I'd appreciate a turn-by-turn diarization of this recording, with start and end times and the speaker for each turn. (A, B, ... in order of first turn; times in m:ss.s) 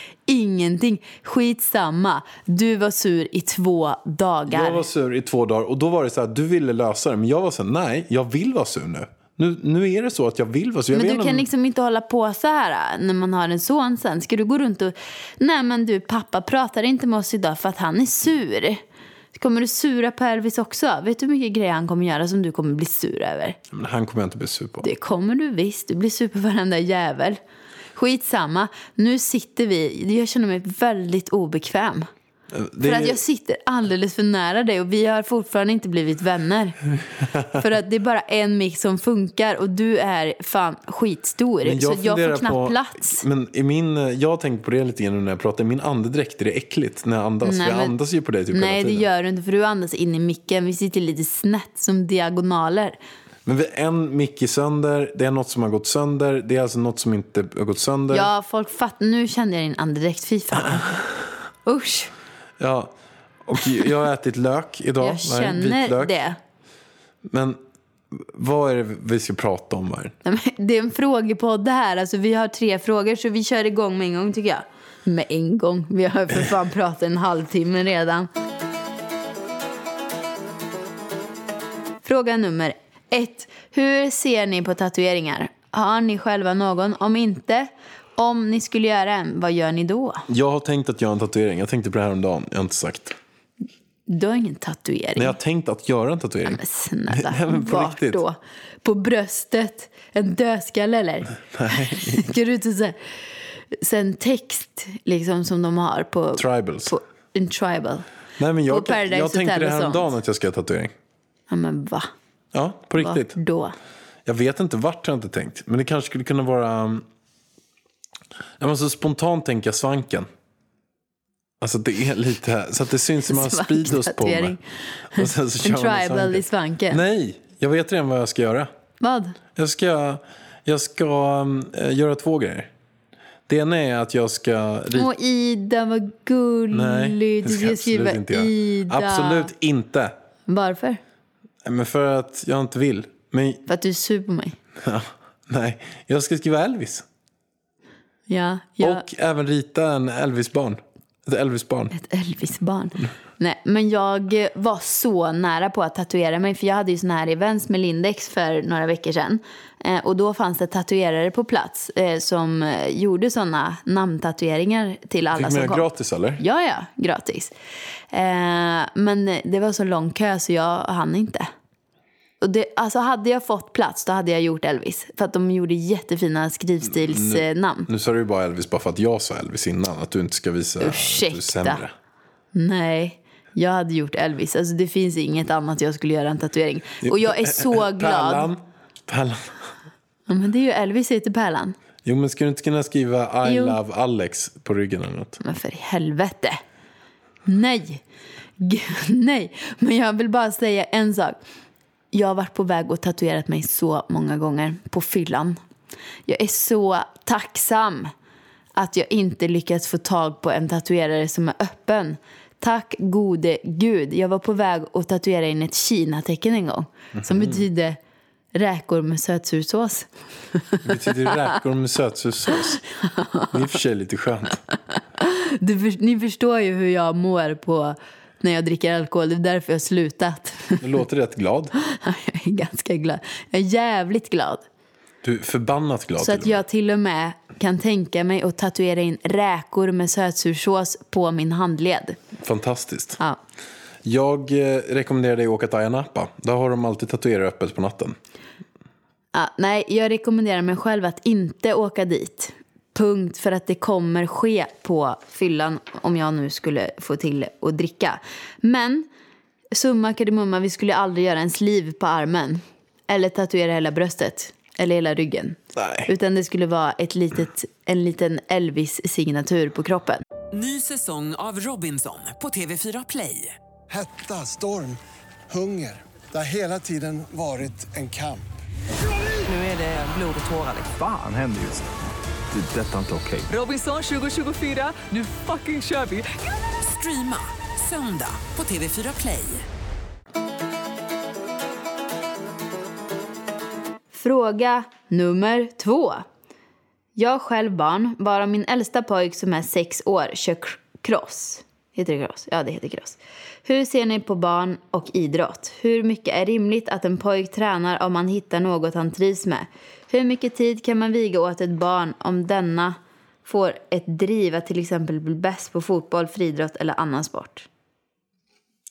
0:00.3-0:04.9 A
0:04.5-0:11.4 B
0:10.9-0:18.8 A
0:19.4-0:23.6 A
0:23.7-0:24.9 B
0:24.8-0:27.4 A
0:28.0-0:32.1 A
0:32.5-0:33.2 B
0:32.8-0:36.8 A
0:37.5-0:43.2 A
0:41.6-0:49.1 B
0:47.4-0:48.0 A
0:48.5-0:53.0 A
0:53.5-0:58.3 B
0:58.1-1:01.0 A
1:01.6-1:02.1 A
1:02.6-1:06.1 B
1:05.0-1:06.4 A
1:07.2-1:07.6 B
1:08.1-1:10.2 B
1:10.2-1:18.3 A
1:22.0-1:30.3 A
1:30.3-1:33.2 B
1:34.1-1:35.4 A
1:35.2-1:38.2 B
1:36.4-1:43.0 A
1:41.5-1:42.3 B
1:43.7-1:48.1 A
1:46.4-1:46.9 B
1:48.4-1:50.9 B
1:48.7-1:50.1 A
1:51.5-1:52.1 A
1:52.5-1:53.4 B
1:53.0-1:53.8 A
1:54.3-1:57.0 B
1:58.6-2:00.3 B
2:01.6-2:04.6 B
2:03.3-2:04.6 A
2:05.1-2:07.0 A
2:05.1-2:08.7 B
2:09.0-2:09.4 A
2:09.6-2:12.7 B
2:13.5-2:15.1 B
2:14.9-2:19.5 A
2:16.7-2:20.2 B
2:20.5-2:21.0 A
2:21.6-2:23.6 B
2:23.7-2:24.6 A
2:24.8-2:27.1 B
2:28.3-2:29.0 A
2:28.8-2:31.9 B
2:31.9-2:45.9 A
2:45.3-2:46.4 B
2:46.4-2:47.5 A
2:48.1-2:51.5 A
2:52.4-2:57.9 A
2:56.9-3:01.9 B
3:00.8-3:01.8 A
3:02.5-3:08.5 A
3:07.0-3:09.7 B
3:10.3-3:11.8 A
3:12.0-3:15.4 B
3:13.4-3:13.8 A
3:15.4-3:16.6 A
3:17.5-3:18.0 A
3:18.6-3:21.4 A
3:22.1-3:25.6 A
3:26.3-3:28.1 A
3:28.8-3:38.0 A
3:37.2-3:37.6 B
3:38.5-3:41.4 A
3:40.8-3:42.8 B
3:42.9-3:43.5 A
3:43.5-3:44.6 B
3:45.2-3:51.0 A
3:50.8-3:51.7 B
3:51.8-3:54.6 A
3:55.2-3:56.6 B
3:56.2-4:02.2 A
4:02.4-4:03.2 B
4:04.0-4:08.2 B
4:09.3-4:19.1 A
4:19.7-4:30.2 A
4:25.8-4:26.1 B
4:30.5-4:33.6 C
4:33.9-4:38.5 D
4:39.5-4:40.9 C
4:40.9-4:41.8 E
4:42.5-4:43.5 E
4:43.5-4:49.7 C
4:54.1-4:56.2 A
4:57.2-5:17.7 A